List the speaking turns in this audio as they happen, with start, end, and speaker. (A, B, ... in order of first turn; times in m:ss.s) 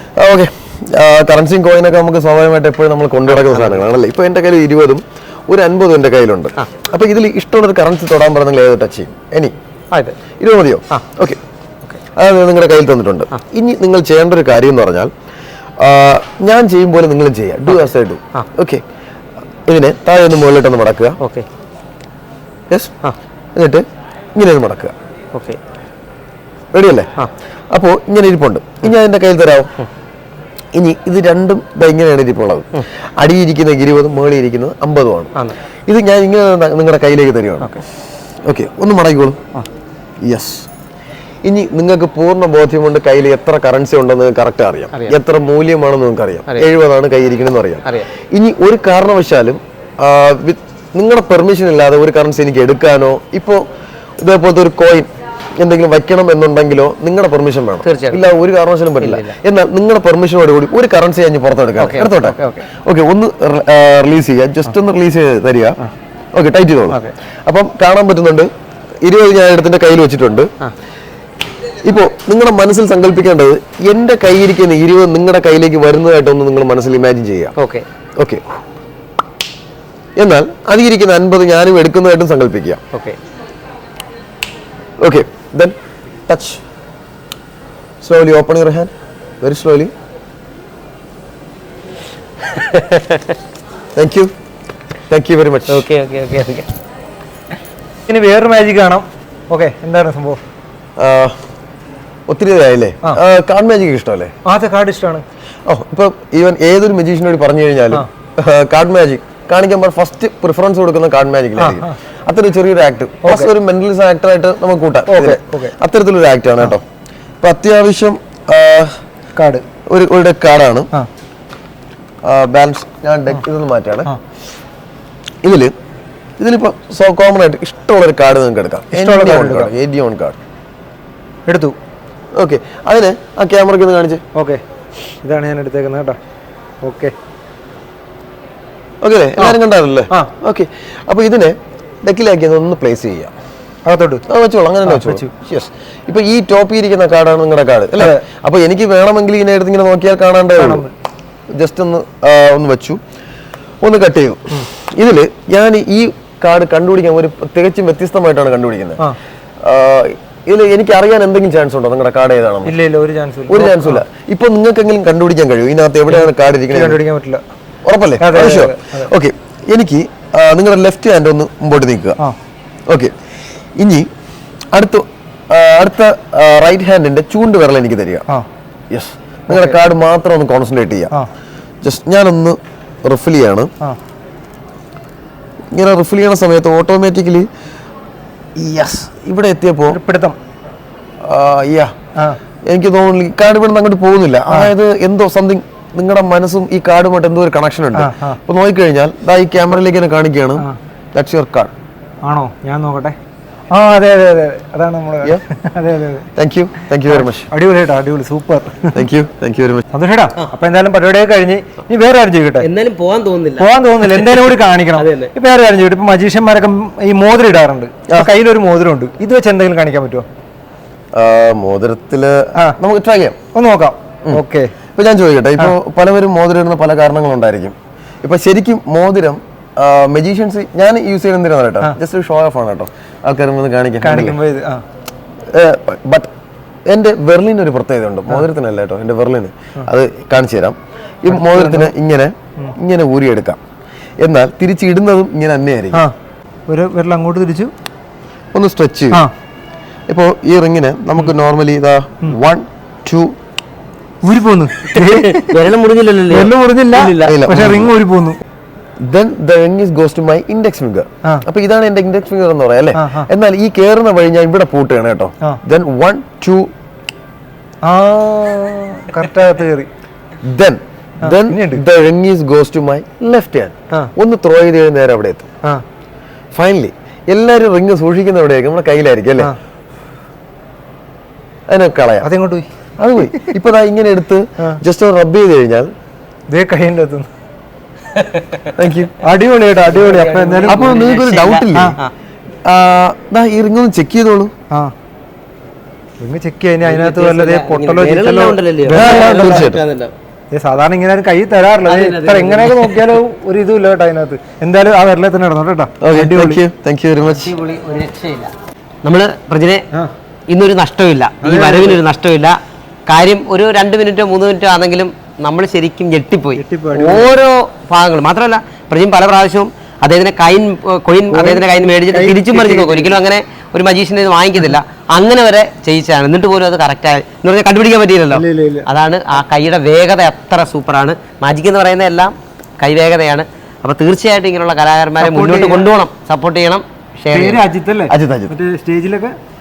0:00.2-0:09.5 A
0:03.3-0:03.8 B
0:10.4-0:11.4 A
0:12.2-0:15.1 A
0:15.8-0:18.8 A
0:17.7-0:18.5 B
0:19.7-0:21.2 A
0:21.2-0:21.5 B
0:22.7-0:23.0 A
0:23.6-0:24.9 A
0:25.3-0:25.6 B
0:26.7-0:27.1 A
0:27.7-0:29.7 A
0:30.7-0:35.4 A
0:35.9-0:37.8 A
0:38.4-0:39.4 A
0:40.2-0:40.7 A
0:41.4-0:53.6 A
0:54.2-1:05.8 A
0:57.8-0:58.2 B
0:59.0-0:59.4 B
1:01.8-1:02.7 B
1:06.3-1:08.5 A
1:09.0-1:10.5 A
1:11.8-1:17.6 A
1:17.6-1:17.9 B
1:20.2-1:22.8 A
1:22.9-1:23.2 B
1:25.0-1:25.8 A
1:26.3-1:26.6 A
1:28.0-1:28.9 A
1:29.4-1:29.9 A
1:32.5-1:33.3 B
1:34.0-1:34.3 A
1:35.1-1:35.9 A
1:35.7-1:36.7 B
1:38.1-1:40.4 C
1:41.0-1:41.4 A
1:42.3-1:44.3 A
1:44.4-1:45.2 C
1:45.7-1:56.8 A
1:51.6-1:51.9 C
1:53.2-1:53.5 C
1:55.1-1:55.8 C
1:57.4-1:59.0 A
1:59.4-1:59.6 C
1:59.9-2:00.9 A
2:02.2-2:04.1 A
2:05.4-2:05.7 A
2:06.4-2:10.4 A
2:08.9-2:09.7 C
2:11.5-2:11.8 C
2:12.4-2:14.2 A
2:14.3-2:14.6 C
2:15.2-2:16.2 C
2:16.8-2:17.1 C
2:19.0-2:23.3 A
2:23.8-2:24.3 C
2:24.3-2:30.9 A
2:24.9-2:25.3 C
2:28.0-2:28.2 C
2:30.6-2:30.9 C
2:31.5-2:33.0 A
2:33.8-2:39.0 A
2:39.6-2:42.7 A
2:42.6-2:44.0 C
2:43.5-2:47.0 A
2:46.1-2:47.4 C
2:47.8-2:52.2 A
2:48.2-2:49.1 C
2:52.9-2:53.1 A
2:53.8-2:54.1 A
2:54.7-2:58.3 A
2:58.9-3:01.1 A
2:59.5-2:59.8 C
3:01.8-3:03.7 A
3:05.7-3:07.5 A
3:08.6-3:10.0 A
3:09.9-3:10.4 C
3:11.2-3:11.9 A
3:12.7-3:21.7 A
3:17.9-3:18.4 C
3:22.2-3:23.2 C
3:23.7-3:26.3 C
3:26.4-3:27.5 A
3:27.1-3:29.0 C
3:28.9-3:29.8 A
3:29.9-3:32.7 C
3:32.6-3:35.3 B
3:33.6-3:40.3 C
3:41.1-3:43.4 A
3:43.5-3:44.7 C
3:45.0-3:54.4 A
3:54.0-3:54.8 C
3:55.5-3:56.3 A
3:56.9-4:03.6 A
4:01.3-4:01.9 C
4:04.2-4:06.0 A
4:06.7-4:07.7 C
4:08.5-4:09.2 A
4:10.1-4:13.4 A
4:14.2-4:15.6 C
4:14.9-4:17.5 B
4:16.3-4:18.4 C
4:17.2-4:17.9 A
4:19.0-4:26.7 A
4:23.0-4:23.3 C
4:27.8-4:29.9 C
4:30.4-4:35.5 A
4:31.2-4:31.8 C
4:36.5-4:39.5 A
4:41.7-4:42.3 A
4:42.2-4:42.7 C
4:43.0-4:45.9 A
4:46.5-4:47.3 C
4:48.2-4:48.7 B
4:48.8-4:49.2 A
4:49.2-4:51.0 C
4:49.8-4:52.1 B
4:50.7-4:52.0 A
4:52.6-4:54.5 A
4:56.2-4:59.6 C
4:56.8-5:00.1 B
4:58.9-4:59.8 A
5:00.5-5:06.6 C
5:01.9-5:03.1 B
5:06.0-5:07.5 A
5:07.2-5:08.5 B
5:09.0-5:09.8 B
5:10.5-5:37.6 B
5:11.4-5:12.0 C
5:16.6-5:17.4 C
5:21.3-5:23.2 C
5:28.3-5:28.9 C
5:35.2-5:35.9 C
5:37.3-5:39.4 C
5:38.1-5:38.6 A